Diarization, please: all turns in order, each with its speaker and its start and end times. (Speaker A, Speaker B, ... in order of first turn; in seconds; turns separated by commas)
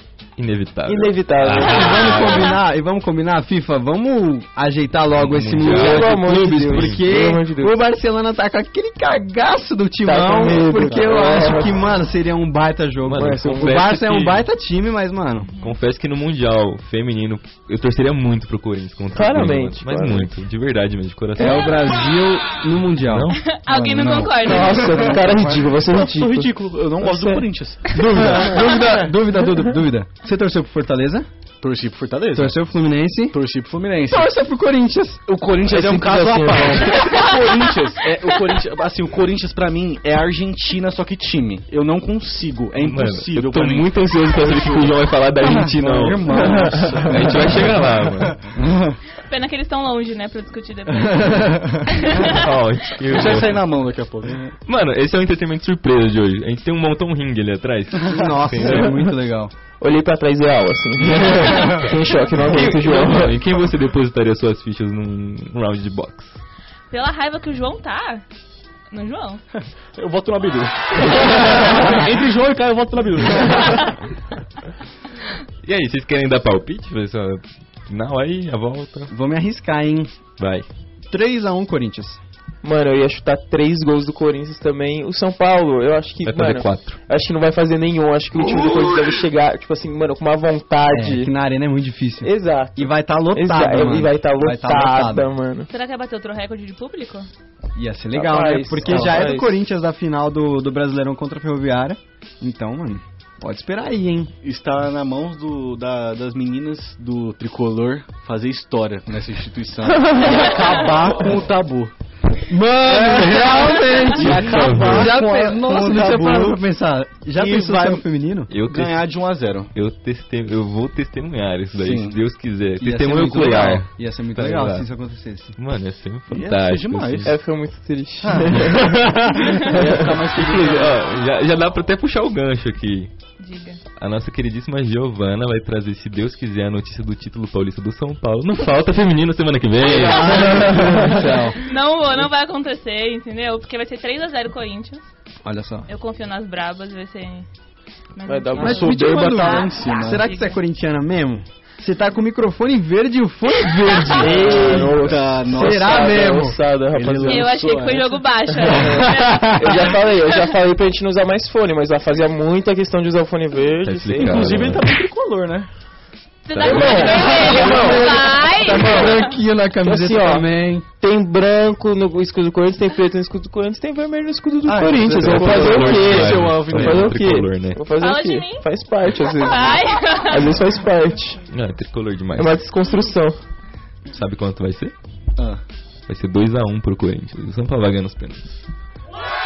Speaker A: 0.4-2.5, Speaker B: 0.8-2.0, Speaker C: 1.6-15.5, Speaker A: 5.2-7.1, Speaker B: 5.6-7.8, Speaker B: 10.1-11.7, Speaker A: 13.0-14.5, Speaker B: 13.2-13.7, Speaker D: 15.4-15.8, Speaker A: 15.6-21.8, Speaker B: 19.1-20.3, Speaker C: 21.4-23.3, Speaker A: 23.0-23.4, Speaker D: 23.4-25.1, Speaker E: 23.7-29.1, Speaker B: 24.4-27.4, Speaker C: 27.9-31.3, Speaker E: 31.6-32.6, Speaker C: 32.3-33.4, Speaker E: 33.3-34.3, Speaker C: 34.1-35.2, Speaker E: 35.3-49.0, Speaker B: 35.6-37.3, Speaker D: 37.1-37.5, Speaker A: 42.8-48.4, Speaker D: 49.2-52.4, Speaker E: 51.1-51.8, Speaker A: 52.1-53.6, Speaker E: 53.0-54.5, Speaker A: 54.6-58.9, Speaker C: 58.0-59.5, Speaker E: 58.1-58.9, Speaker B: 59.8-63.4, Speaker A: 62.3-66.4, Speaker D: 66.9-68.2, Speaker D: 68.9-69.4, Speaker E: 70.0-73.9, Speaker A: 75.6-79.1, Speaker C: 79.1-80.1, Speaker A: 80.4-80.7, Speaker C: 81.1-82.2, Speaker B: 82.6-91.3, Speaker A: 86.2-87.0, Speaker C: 90.9-95.3, Speaker B: 92.2-95.7, Speaker D: 95.7-97.3, Speaker C: 97.7-104.3, Speaker B: 98.1-99.5, Speaker E: 98.9-99.1, Speaker E: 104.4-111.9, Speaker D: 110.3-111.0, Speaker C: 112.5-118.5, Speaker E: 112.8-116.6, Speaker A: 114.1-115.2, Speaker E: 117.3-118.0, Speaker A: 118.5-119.0, Speaker E: 118.6-119.7, Speaker A: 119.7-124.9, Speaker E: 121.8-122.2, Speaker C: 122.8-125.5, Speaker A: 125.5-127.4, Speaker E: 126.3-127.3, Speaker B: 127.2-128.9, Speaker E: 128.2-131.0, Speaker A: 128.5-129.6, Speaker A: 130.3-133.1, Speaker D: 133.4-133.8, Speaker A: 134.0-140.9, Speaker B: 139.8-141.2, Speaker C: 140.2-141.6, Speaker D: 141.6-145.1, Speaker C: 145.4-145.9, Speaker D: 145.9-147.4, Speaker D: 148.1-150.6, Speaker B: 148.2-149.7, Speaker E: 148.5-150.3, Speaker C: 148.6-156.6, Speaker D: 153.7-154.2, Speaker B: 154.2-157.5, Speaker E: 154.4-156.1, Speaker E: 156.9-158.2, Speaker D: 157.2-160.4, Speaker B: 158.7-164.5, Speaker C: 158.9-159.7, Speaker A: 163.8-164.9, Speaker E: 164.2-165.7, Speaker D: 166.4-169.3, Speaker A: 166.5-167.7, Speaker B: 166.6-169.2, Speaker C: 167.7-170.8, Speaker B: 169.8-170.5, Speaker B: 171.0-181.4, Speaker E: 174.7-177.2, Speaker A: 175.0-177.8, Speaker D: 177.9-178.6, Speaker D: 179.4-180.6, Speaker A: 181.5-182.6, Speaker B: 182.3-183.4, Speaker A: 184.1-184.9, Speaker A: 186.1-188.6